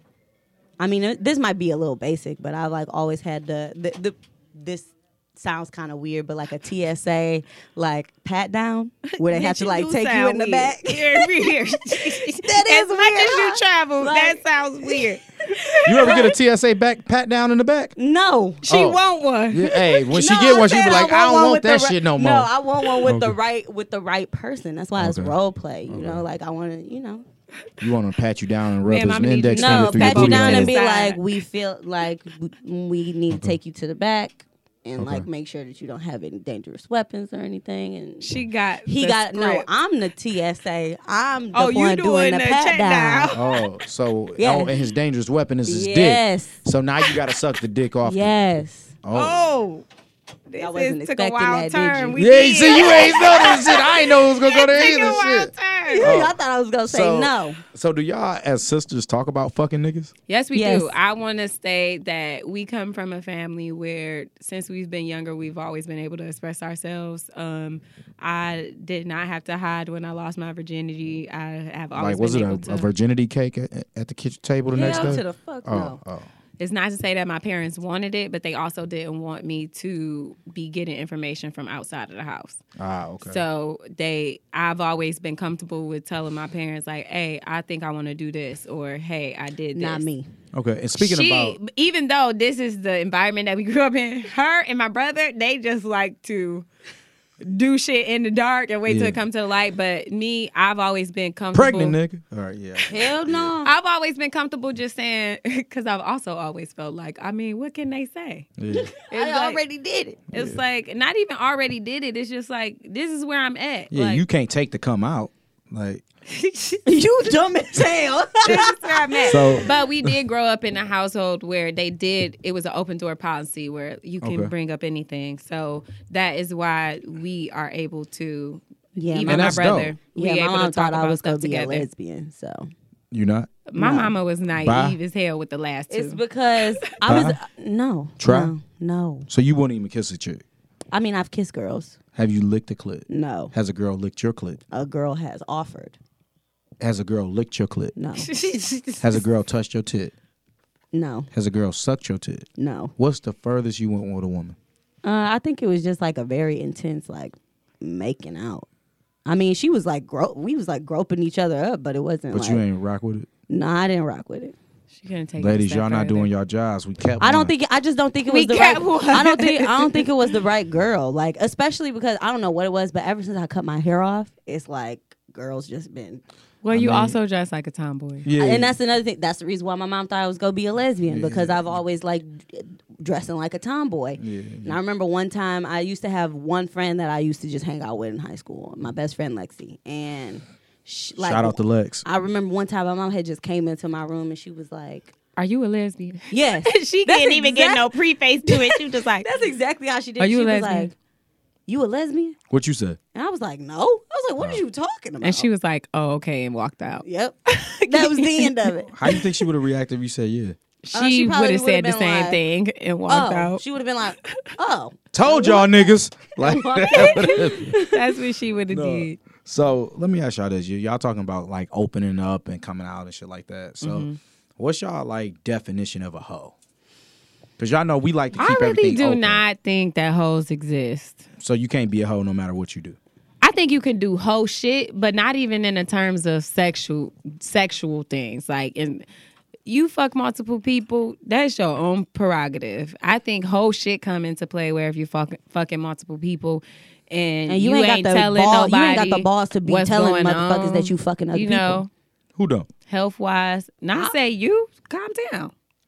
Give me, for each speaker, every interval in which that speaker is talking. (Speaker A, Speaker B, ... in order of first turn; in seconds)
Speaker A: 0.8-15.2, 15.7-16.3, 17.9-18.7, 20.0-27.2, 29.5-38.3, 38.9-43.4, 44.4-44.9, 45.7-46.6, 48.0-49.0, 50.6-52.2, 55.9-57.6, 60.5-60.9, 74.7-76.0, 89.7-90.3, 102.8-103.7, 108.9-110.2, 116.8-119.6, 128.9-132.7, 133.8-134.1, 135.9-139.3, 140.9-142.0, 143.1-143.5, 144.7-146.0, 147.9-148.4, 150.9-151.3, 152.6-152.9, 155.0-158.7, 159.2-162.6, 163.5-164.6, 167.2-176.2, 178.4-195.1, 196.3-197.9, 198.4-200.9, 201.7-202.3, 203.1-205.5, 207.0-209.0, 210.9-212.4, 213.1-218.0, 247.5-251.8
Speaker B: 9.1-16.3, 18.6-20.4, 28.8-31.2, 38.2-39.7, 41.5-43.4, 49.1-49.8, 50.5-56.0, 60.3-72.9, 76.6-82.6, 83.2-90.0, 91.0-96.7, 97.4-102.0, 103.6-108.5, 109.0-109.6, 110.3-114.2, 116.3-116.8, 118.4-131.8, 133.7-136.2, 148.2-149.2, 164.9-166.3, 168.3-170.1, 176.6-178.3, 195.3-199.3, 200.2-200.9, 205.2-208.5, 210.8-213.6, 214.2-214.5, 216.9-219.2, 223.8-224.2, 228.3-231.2, 233.4-239.1, 239.7-251.9, 252.9-255.5
Speaker C: 15.8-17.9, 18.6-19.0, 19.5-22.5, 23.0-23.4, 25.0-25.3, 25.9-26.2, 27.8-30.8, 35.0-35.2, 43.3-48.3, 49.0-49.5, 52.1-60.1, 72.0-76.3, 82.8-83.4, 90.5-91.6, 98.9-99.2, 101.5-103.5, 108.6-108.9, 110.3-110.6, 113.9-116.0, 118.5-120.1, 124.2-124.5, 129.2-129.9, 133.1-133.5, 134.5-135.0, 137.0-137.4, 138.2-138.5, 139.3-140.4, 142.1-144.6, 146.8-147.9, 149.0-150.1, 151.3-152.4, 153.0-154.6, 162.3-163.3, 165.4-167.5, 176.7-177.2, 178.2-178.8, 181.1-181.6, 184.2-184.8, 191.2-192.0, 202.5-203.0, 208.9-210.6, 215.1-217.8, 218.7-226.5, 227.6-229.4, 231.4-233.0, 252.3-252.7